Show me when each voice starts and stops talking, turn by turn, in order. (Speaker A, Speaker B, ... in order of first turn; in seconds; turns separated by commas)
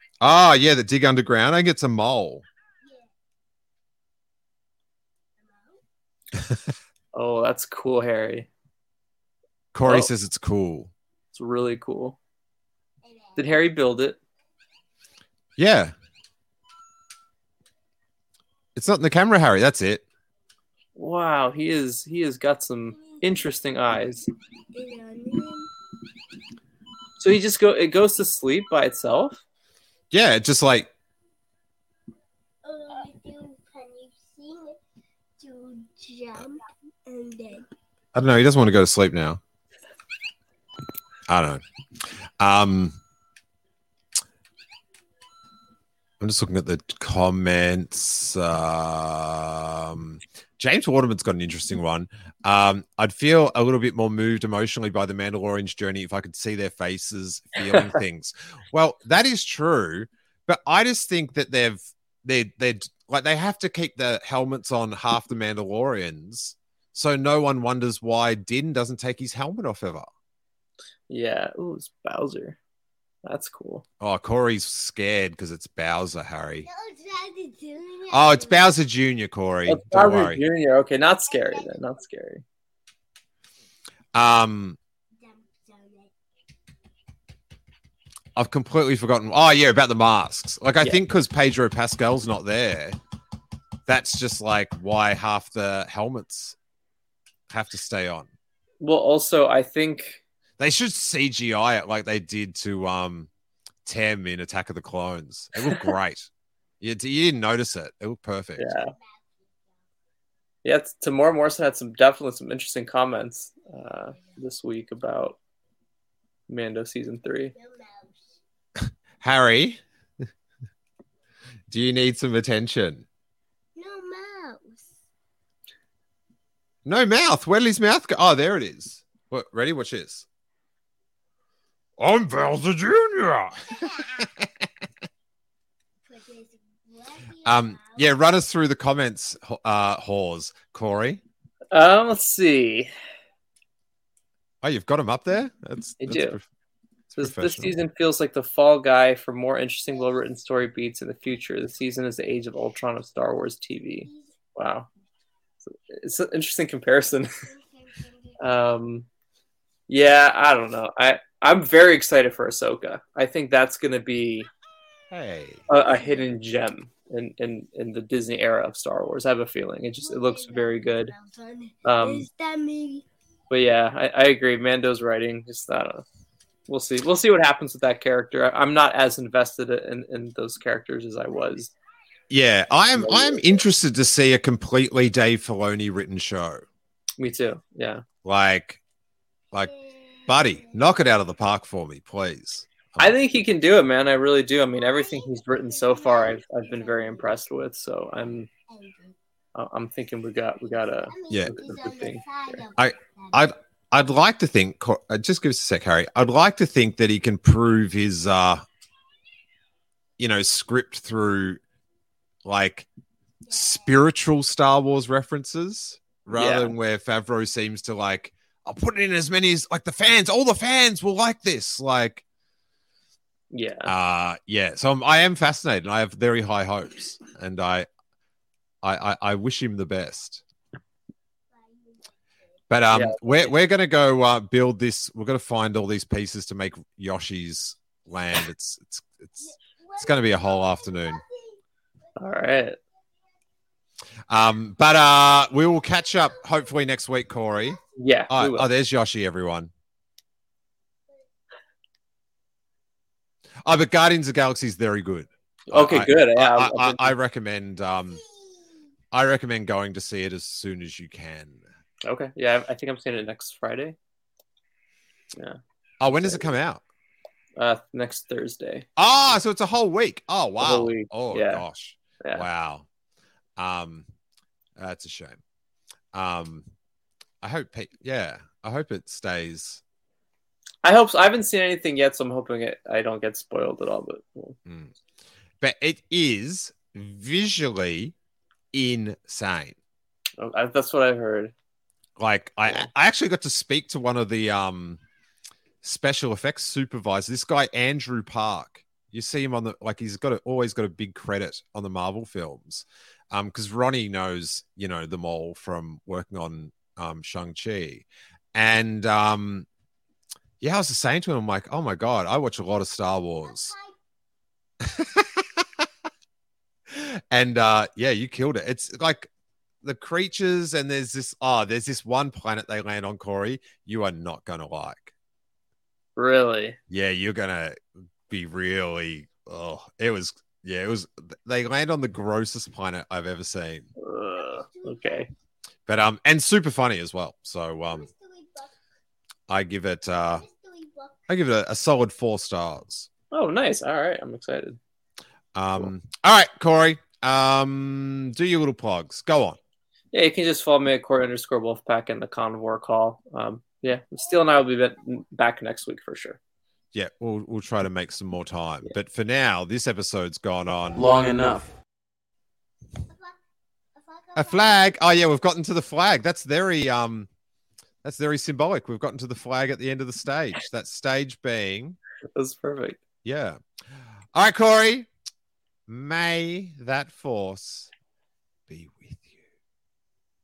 Speaker A: 0.2-2.5, Speaker B: 2.8-3.1, Speaker B: 5.4-5.8, Speaker C: 7.1-8.5, Speaker A: 9.7-10.9, Speaker C: 11.3-12.2, Speaker B: 13.1-13.5, Speaker C: 13.4-14.2, Speaker A: 15.6-15.9, Speaker A: 18.8-20.1, Speaker C: 21.0-24.3, Speaker B: 23.0-23.2, Speaker B: 24.7-25.7, Speaker C: 27.2-29.4, Speaker A: 30.1-30.9, Speaker B: 32.6-34.8, Speaker B: 35.4-37.7, Speaker A: 38.1-39.4, Speaker A: 41.3-43.0, Speaker A: 46.2-70.1, Speaker C: 71.1-72.6, Speaker C: 73.2-73.8, Speaker A: 74.0-76.7, Speaker B: 76.7-78.7, Speaker A: 78.1-80.4, Speaker C: 79.7-82.4, Speaker B: 81.3-82.0, Speaker A: 84.1-84.8, Speaker B: 85.2-86.1, Speaker A: 88.4-93.0, Speaker A: 93.9-96.6, Speaker A: 97.5-98.3, Speaker C: 98.8-100.2, Speaker A: 100.6-103.3, Speaker A: 103.8-106.3, Speaker A: 106.8-108.8, Speaker C: 108.6-108.9, Speaker C: 110.7-115.4, Speaker C: 116.5-117.5, Speaker B: 117.5-118.4, Speaker A: 118.8-119.8, Speaker A: 121.7-123.0, Speaker B: 123.8-124.9, Speaker A: 126.9-130.3, Speaker A: 132.0-134.5, Speaker B: 136.0-138.1, Speaker A: 137.4-141.2, Speaker C: 141.7-142.9, Speaker A: 144.6-146.4, Speaker C: 146.0-146.4, Speaker A: 147.2-147.8, Speaker C: 147.2-154.9, Speaker B: 149.9-150.3, Speaker B: 154.0-154.3, Speaker C: 155.7-157.3, Speaker B: 157.4-158.4, Speaker C: 158.4-159.1, Speaker C: 159.9-164.5, Speaker A: 165.1-165.6, Speaker C: 165.7-171.1, Speaker B: 165.7-166.3, Speaker B: 170.0-173.1, Speaker C: 171.8-172.3, Speaker C: 173.5-176.0, Speaker C: 176.7-181.7, Speaker A: 182.3-186.6, Speaker C: 183.0-183.6, Speaker C: 187.2-188.0, Speaker A: 188.2-188.8, Speaker B: 189.6-190.8, Speaker A: 190.3-193.1, Speaker C: 193.0-198.5, Speaker B: 194.7-197.4, Speaker B: 198.7-199.2, Speaker C: 199.6-202.2, Speaker B: 200.6-203.5, Speaker A: 201.3-201.6, Speaker A: 202.8-208.6, Speaker A: 210.2-211.6, Speaker A: 212.4-212.9, Speaker A: 213.5-222.2, Speaker C: 216.3-216.7, Speaker C: 223.5-223.9, Speaker A: 223.9-227.9, Speaker A: 228.8-230.4, Speaker B: 231.6-232.1, Speaker A: 232.7-241.2, Speaker C: 232.9-233.5, Speaker B: 239.4-241.6, Speaker C: 242.2-242.8, Speaker A: 244.3-247.8, Speaker C: 248.0-248.7, Speaker A: 248.3-249.7, Speaker A: 253.6-258.2, Speaker C: 255.7-257.1, Speaker A: 259.1-261.6, Speaker C: 262.1-264.0, Speaker A: 266.0-266.8, Speaker C: 267.6-268.9, Speaker A: 269.0-272.9, Speaker C: 270.6-271.6, Speaker A: 273.6-274.1, Speaker A: 274.8-275.4, Speaker A: 276.1-276.7, Speaker A: 277.4-279.8, Speaker C: 280.8-284.6, Speaker A: 284.7-284.9, Speaker A: 285.6-288.1, Speaker A: 288.7-289.8, Speaker C: 290.4-291.5, Speaker A: 292.2-295.0, Speaker A: 295.8-309.7, Speaker A: 310.6-313.7, Speaker B: 313.4-313.9, Speaker A: 314.9-315.8, Speaker A: 316.9-319.3, Speaker A: 319.8-325.1, Speaker C: 326.2-326.8, Speaker A: 326.9-333.9, Speaker C: 334.0-335.3, Speaker B: 334.4-335.3, Speaker A: 335.9-338.1, Speaker B: 337.9-338.7, Speaker A: 339.5-340.4, Speaker B: 340.4-341.2, Speaker A: 341.3-343.1, Speaker C: 343.3-344.8, Speaker A: 345.6-349.6, Speaker C: 350.1-356.4, Speaker B: 354.2-354.8, Speaker A: 356.9-361.7, Speaker B: 363.1-363.4, Speaker B: 364.0-365.1, Speaker A: 364.4-367.3, Speaker A: 368.0-372.0, Speaker C: 372.4-373.0, Speaker A: 373.2-373.6, Speaker A: 374.3-375.1, Speaker A: 375.9-377.9, Speaker A: 378.7-379.4